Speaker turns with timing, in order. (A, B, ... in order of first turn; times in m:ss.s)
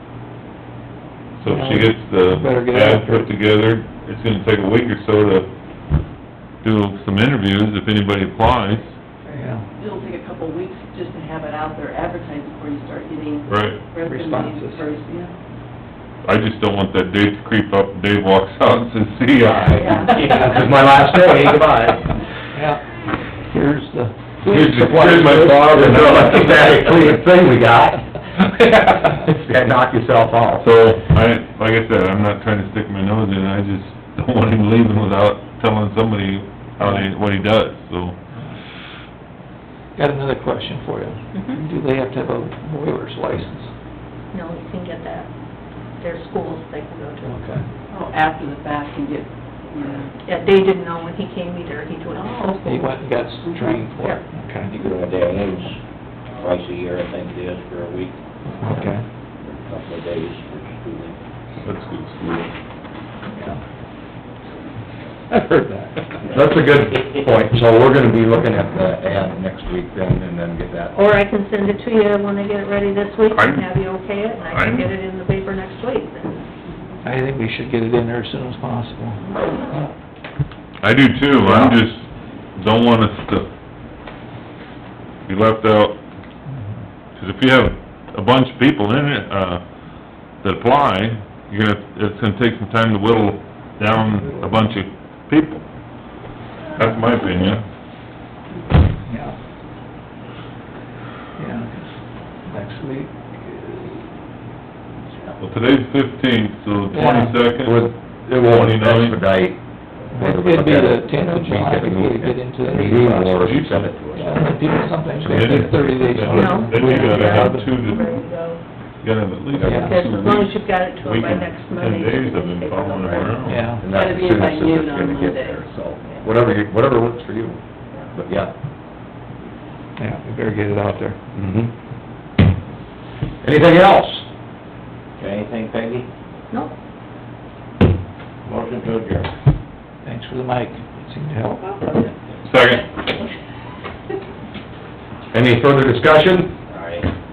0:01.4-0:05.5 A
0:01.5-0:03.3 B
0:06.6-0:08.9 A
0:09.3-0:15.3 C
0:09.3-0:09.6 B
0:13.5-0:13.8 A
0:14.0-0:14.8 B
0:16.2-0:20.0 A
0:19.4-0:22.2 D
0:19.7-0:20.6 C
0:22.5-0:22.8 B
0:23.5-0:24.2 B
0:24.5-0:26.6 A
0:24.5-0:30.7 D
0:30.6-0:38.2 A
0:36.8-0:37.1 B
0:40.0-0:43.7 B
0:41.3-0:41.6 E
0:44.3-0:45.3 E
0:46.0-0:47.5 E
0:47.2-0:47.6 B
0:47.9-0:50.1 C
0:50.2-0:52.8 E
0:52.1-0:53.9 C
0:52.6-0:54.7 B
0:54.7-0:55.8 F
0:56.3-0:58.2 F
0:58.6-0:59.0 B
0:59.4-1:01.2 F
1:01.6-1:02.5 A
1:03.3-1:03.6 B
1:05.3-1:06.0 B
1:06.3-1:11.0 D
1:11.0-1:16.5 E
1:13.4-1:13.7 A
1:14.4-1:14.9 A
1:17.0-1:19.2 B
1:20.8-1:23.5 A
1:21.5-1:21.8 B
1:25.3-1:26.0 A
1:27.2-1:29.6 A
1:30.4-1:35.6 A
1:34.0-1:34.8 B
1:36.8-1:37.6 A
1:39.0-1:39.4 B
1:41.4-1:41.9 B
1:42.5-1:44.1 B
1:45.4-1:49.2 A
1:46.9-1:47.4 B
1:47.6-1:49.6 D
1:50.1-1:54.4 D
1:50.1-1:53.5 B
1:53.4-1:54.2 A
1:54.2-1:57.7 B
1:55.2-1:58.1 A
1:55.2-1:55.7 D
1:56.3-1:58.6 E
1:59.0-2:03.8 A
1:59.6-2:00.0 B
1:59.8-2:03.4 E
2:03.4-2:03.8 B
2:03.8-2:07.6 D
2:03.8-2:05.6 C
2:08.1-2:08.5 D
2:10.0-2:11.2 B
2:11.4-2:11.7 D
2:13.4-2:14.3 D
2:15.2-2:16.1 F
2:18.4-2:19.3 F
2:20.0-2:21.7 B
2:22.4-2:22.9 A
2:25.3-2:26.5 D
2:26.7-2:27.1 F